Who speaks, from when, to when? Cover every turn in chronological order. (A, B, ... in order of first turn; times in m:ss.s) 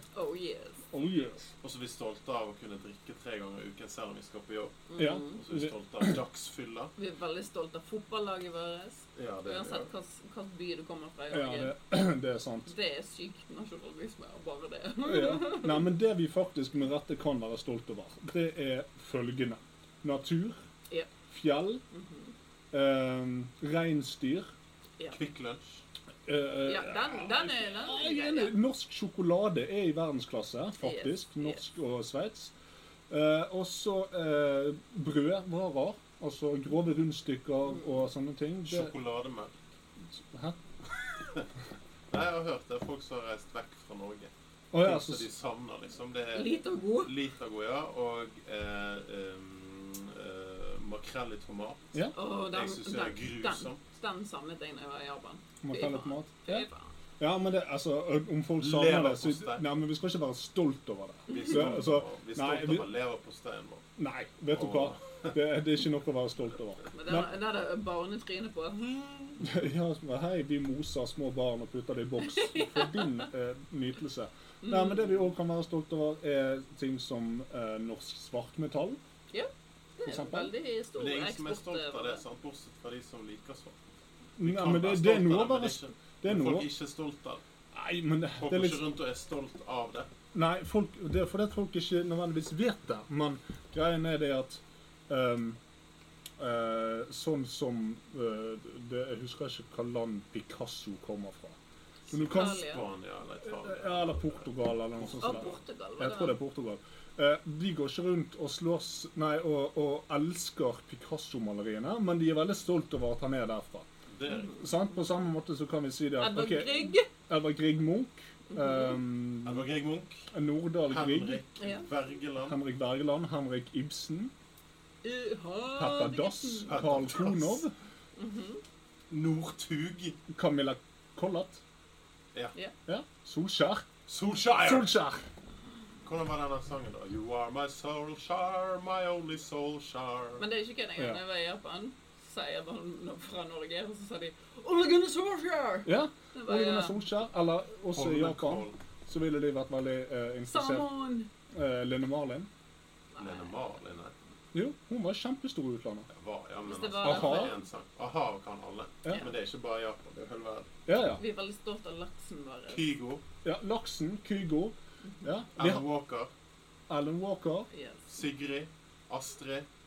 0:00.1-0:00.8 A
0:00.9-0:01.5 B
0:01.6-0:06.9 C
0:04.9-0:05.4 A
0:05.0-0:06.2 B
0:07.0-0:11.8 A
0:09.2-0:09.9 C
0:11.3-0:12.7 B
0:12.7-0:15.8 A
0:15.0-0:20.6 B
0:21.3-0:21.8 B
0:21.9-0:22.3 A
0:22.7-0:24.5 B
0:25.1-0:25.8 C
0:26.3-0:32.5 B
0:26.6-0:28.6 A
0:30.8-0:31.6 A
0:33.1-0:38.9 B
0:38.6-0:39.6 C
0:40.1-0:40.6 B
0:42.1-0:53.8 C
0:44.7-0:45.3 B
0:46.3-0:47.1 A
0:52.2-0:56.9 A
0:55.6-0:56.7 B
0:57.2-1:02.9 B
0:58.6-0:59.7 C
1:01.3-1:03.9 C
1:01.3-1:01.6 A
1:04.0-1:07.3 B
1:04.5-1:05.4 C
1:06.9-1:09.4 A
1:09.4-1:19.0 B
1:12.4-1:13.2 A
1:14.6-1:15.2 A
1:19.3-1:22.2 A
1:20.1-1:20.5 B
1:21.0-1:23.8 C
1:24.4-1:26.7 B
1:24.4-1:27.4 C
1:27.7-1:28.8 B
1:28.4-1:30.1 C
1:30.3-1:35.6 B
1:36.4-1:41.6 B
1:42.1-1:45.6 C
1:42.1-1:42.6 B
1:42.1-1:42.8 A
1:43.4-1:53.9 B
1:45.2-1:46.4 A
1:54.1-1:54.6 C
1:54.5-1:59.7 B
1:56.2-1:57.1 A
1:58.5-1:59.0 A
1:59.4-2:00.3 C
2:00.3-2:01.4 B
2:00.9-2:02.6 C
2:01.6-2:01.9 A
2:02.4-2:04.3 B
2:05.0-2:06.8 A
2:05.8-2:07.7 B
2:06.7-2:07.7 C
2:08.2-2:08.6 A
2:09.1-2:10.2 C
2:10.3-2:11.6 B
2:12.9-2:13.9 B
2:14.1-2:14.9 C
2:14.6-2:15.2 B
2:16.0-2:20.4 C
2:20.4-2:27.0 A
2:25.8-2:30.9 B
2:27.9-2:28.8 C
2:30.5-2:31.3 A
2:31.5-2:32.5 B
2:33.2-2:33.5 A
2:33.2-2:34.1 C
2:34.5-2:36.1 B
2:36.1-2:40.7 C
2:36.6-2:37.6 A
2:37.0-2:37.6 B
2:40.9-2:41.2 B
2:41.2-2:42.8 A
2:42.7-2:43.2 C
2:43.4-2:45.8 B
2:45.6-2:46.3 C
2:46.9-2:47.7 B
2:47.7-2:48.1 A
2:48.1-2:49.7 C